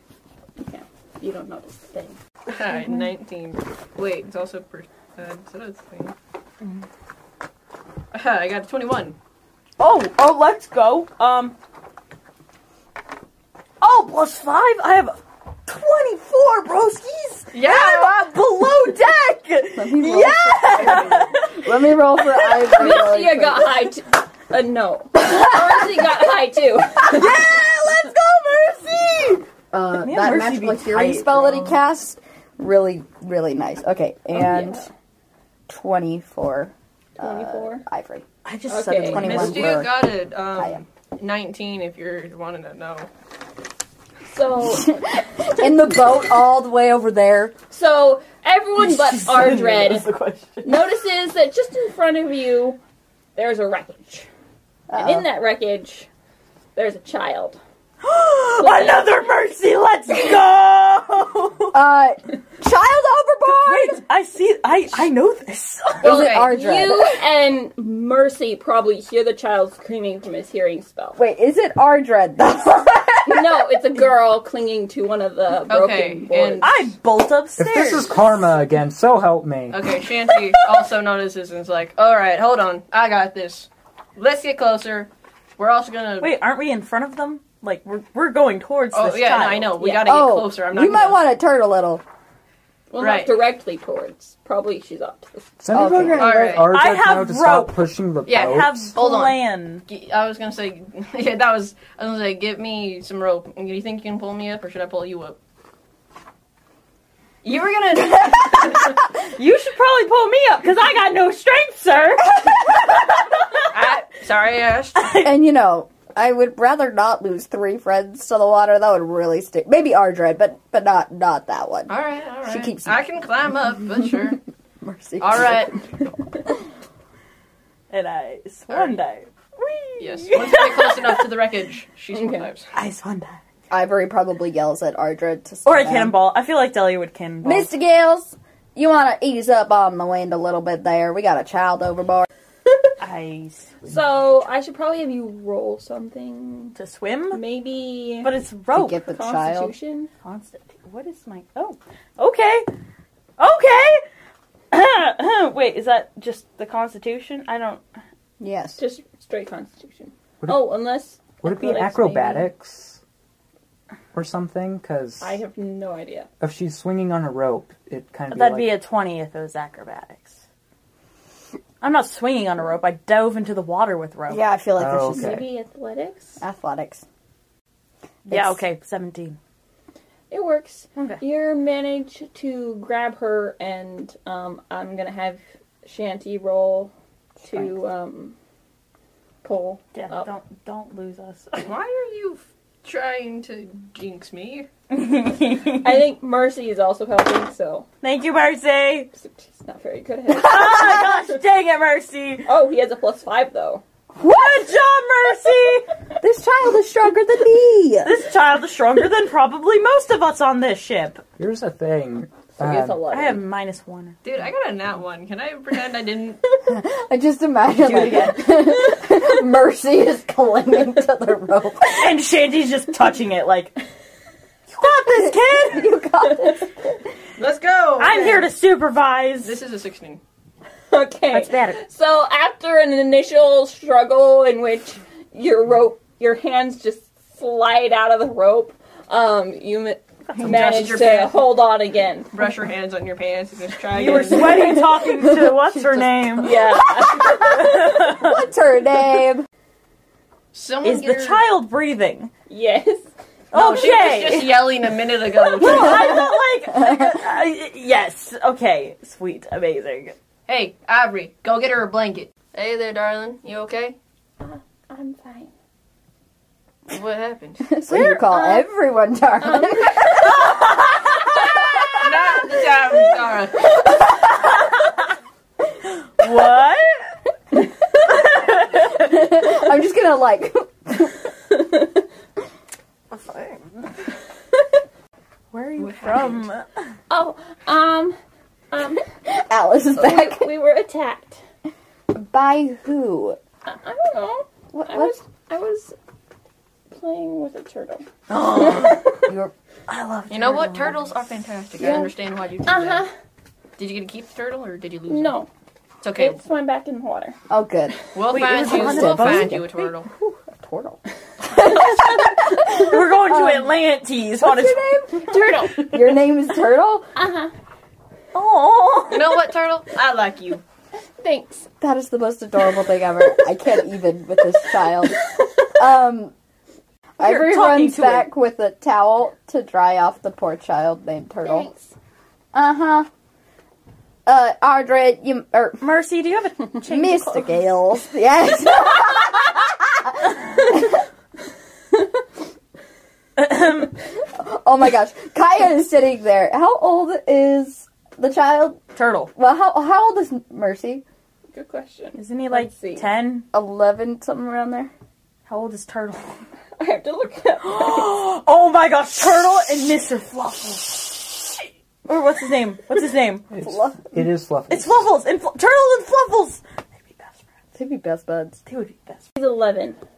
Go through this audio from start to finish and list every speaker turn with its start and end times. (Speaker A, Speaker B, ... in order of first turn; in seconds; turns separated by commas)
Speaker A: 0.6-2.2, Speaker B: 2.5-6.2, Speaker B: 8.1-9.2, Speaker C: 9.8-11.6, Speaker C: 13.8-21.7, Speaker B: 17.5-18.3, Speaker D: 19.7-23.7, Speaker C: 22.4-22.7, Speaker A: 22.8-27.3, Speaker D: 27.1-28.9, Speaker C: 27.2-29.4, Speaker D: 29.7-34.9, Speaker C: 30.0-31.8, Speaker A: 34.3-34.9, Speaker D: 35.7-38.3, Speaker A: 37.2-37.8, Speaker C: 38.5-39.9, Speaker A: 38.7-39.3, Speaker D: 39.1-40.8, Speaker B: 39.2-43.1, Speaker A: 44.3-45.0, Speaker D: 44.7-47.5, Speaker A: 47.7-50.1, Speaker C: 48.8-50.8, Speaker A: 50.6-52.8, Speaker A: 53.4-54.3, Speaker D: 54.9-55.3, Speaker A: 55.0-56.1, Speaker A: 56.8-57.6, Speaker C: 58.0-61.8, Speaker A: 58.6-59.2, Speaker D: 61.7-64.0, Speaker C: 63.5-66.1, Speaker B: 66.0-66.5, Speaker D: 66.0-67.2, Speaker A: 66.0-71.2, Speaker D: 71.2-73.6, Speaker A: 73.3-76.7, Speaker B: 75.7-76.9, Speaker C: 76.6-78.3, Speaker E: 77.6-79.8, Speaker B: 79.7-86.3, Speaker C: 86.2-89.8, Speaker B: 88.9-91.2, Speaker A: 89.8-90.1, Speaker D: 90.0-92.0, Speaker A: 92.9-95.5, Speaker B: 93.0-93.4, Speaker E: 95.6-99.0, Speaker D: 95.7-96.6, Speaker B: 96.1-96.7, Speaker C: 96.7-97.8, Speaker B: 98.3-105.4, Speaker C: 98.3-99.8, Speaker B: 107.4-108.9, Speaker C: 109.3-113.7, Speaker B: 113.7-115.1, Speaker C: 115.0-115.4, Speaker D: 115.2-123.0, Speaker B: 121.9-124.4, Speaker D: 124.8-125.8, Speaker B: 125.2-125.8, Speaker C: 127.9-131.3, Speaker B: 128.7-129.0, Speaker B: 130.0-132.7, Speaker A: 132.1-132.5, Speaker C: 132.7-133.4, Speaker D: 133.7-136.2, Speaker C: 135.7-137.7, Speaker D: 137.4-142.3, Speaker C: 143.0-144.0, Speaker A: 143.8-146.8, Speaker C: 146.8-147.4, Speaker A: 147.3-148.3, Speaker C: 148.2-149.0, Speaker D: 148.7-149.7, Speaker A: 149.0-150.1, Speaker C: 150.2-152.7, Speaker C: 153.4-154.0, Speaker C: 154.7-157.8, Speaker D: 158.4-158.8, Speaker A: 158.8-162.5, Speaker E: 160.4-160.7, Speaker E: 161.4-163.0, Speaker E: 164.1-165.4, Speaker A: 165.2-166.3, Speaker E: 166.4-168.8, Speaker C: 168.3-170.4, Speaker C: 171.8-174.5, Speaker D: 174.3-175.4, Speaker E: 174.8-175.5, Speaker A: 175.1-176.4, Speaker D: 176.4-177.0, Speaker D: 178.3-178.6, Speaker C: 178.3-179.4, Speaker A: 180.3-186.9, Speaker C: 181.0-181.2, Speaker D: 187.4-187.7, Speaker A: 187.4-188.3, Speaker A: 189.4-190.3, Speaker C: 189.9-191.7, Speaker B: 191.6-194.7, Speaker C: 194.9-196.1, Speaker A: 195.8-197.9, Speaker C: 198.0-199.1, Speaker A: 199.1-201.1, Speaker C: 200.4-202.5, Speaker A: 202.5-203.8, Speaker D: 204.2-204.5, Speaker C: 204.2-205.9, Speaker D: 206.2-208.2, Speaker C: 208.0-211.2, Speaker E: 211.4-213.0, Speaker A: 212.6-213.4, Speaker C: 213.1-214.2, Speaker B: 214.2-216.4, Speaker D: 216.7-222.1, Speaker C: 217.8-219.0, Speaker C: 221.9-223.8, Speaker C: 224.7-225.9, Speaker D: 224.8-226.7, Speaker B: 227.4-228.5, Speaker C: 228.0-229.6, Speaker B: 229.4-230.2, Speaker A: 230.9-242.3, Speaker C: 231.3-231.8, Speaker B: 240.4-241.4, Speaker B: 242.3-244.8, Speaker C: 243.9-248.4, Speaker D: 244.1-249.5, Speaker A: 246.4-248.0, Speaker B: 250.5-251.4, Speaker C: 250.8-252.3, Speaker A: 252.5-253.1, Speaker B: 253.5-256.1, Speaker C: 253.5-260.1, Speaker D: 255.6-257.2, Speaker B: 260.5-264.0, Speaker A: 264.4-265.5, Speaker B: 266.9-267.7, Speaker D: 267.6-272.6, Speaker A: 267.9-268.7, Speaker A: 269.4-270.1, Speaker B: 271.9-273.6, Speaker C: 274.2-275.1, Speaker C: 275.9-277.1, Speaker C: 278.2-279.1, Speaker D: 278.4-281.3, Speaker C: 283.1-283.6, Speaker C: 285.5-286.8, Speaker B: 285.8-286.5, Speaker A: 287.1-288.2, Speaker A: 288.7-289.1, Speaker D: 289.2-290.5, Speaker A: 290.0-291.4, Speaker D: 292.1-293.4, Speaker A: 293.7-295.9, Speaker D: 294.7-295.2, Speaker A: 296.9-298.1, Speaker C: 298.3-299.3, Speaker A: 298.6-298.9, Speaker D: 299.3-299.5, Speaker C: 299.9-301.1, Speaker B: 300.3-303.1, Speaker A: 301.8-302.1, Speaker A: 302.7-303.1, Speaker B: 303.8-305.4, Speaker A: 305.1-305.5, Speaker B: 306.0-306.4, Speaker A: 306.1-307.4, Speaker D: 307.5-313.8, Speaker B: 308.1-310.1, Speaker C: 308.3-309.7, Speaker C: 311.6-314.9, Speaker D: 314.4-317.1, Speaker A: 315.2-315.9, Speaker A: 317.1-317.5, Speaker C: 318.3-319.4, Speaker B: 319.1-320.6, Speaker A: 321.2-321.7, Speaker D: 321.8-326.3, Speaker D: 327.2-331.7, Speaker C: 327.2-328.3, Speaker A: 331.4-331.9, Speaker D: 332.5-333.1, Speaker D: 334.3-335.8, Speaker C: 335.8-337.6, Speaker D: 336.8-341.0, Speaker C: 343.4-343.9, Speaker D: 344.2-348.8, Speaker C: 348.9-349.3, Speaker D: 349.4-351.0, Speaker A: 351.5-353.1, Speaker C: 352.2-353.5, Speaker D: 353.5-354.9, Speaker C: 355.5-356.4, Speaker A: 356.8-358.2, Speaker C: 357.6-363.5, Speaker E: 363.5-365.1, Speaker D: 363.6-364.1, Speaker C: 364.7-367.4, Speaker D: 367.8-368.6, Speaker C: 368.7-369.3, Speaker A: 369.4-370.0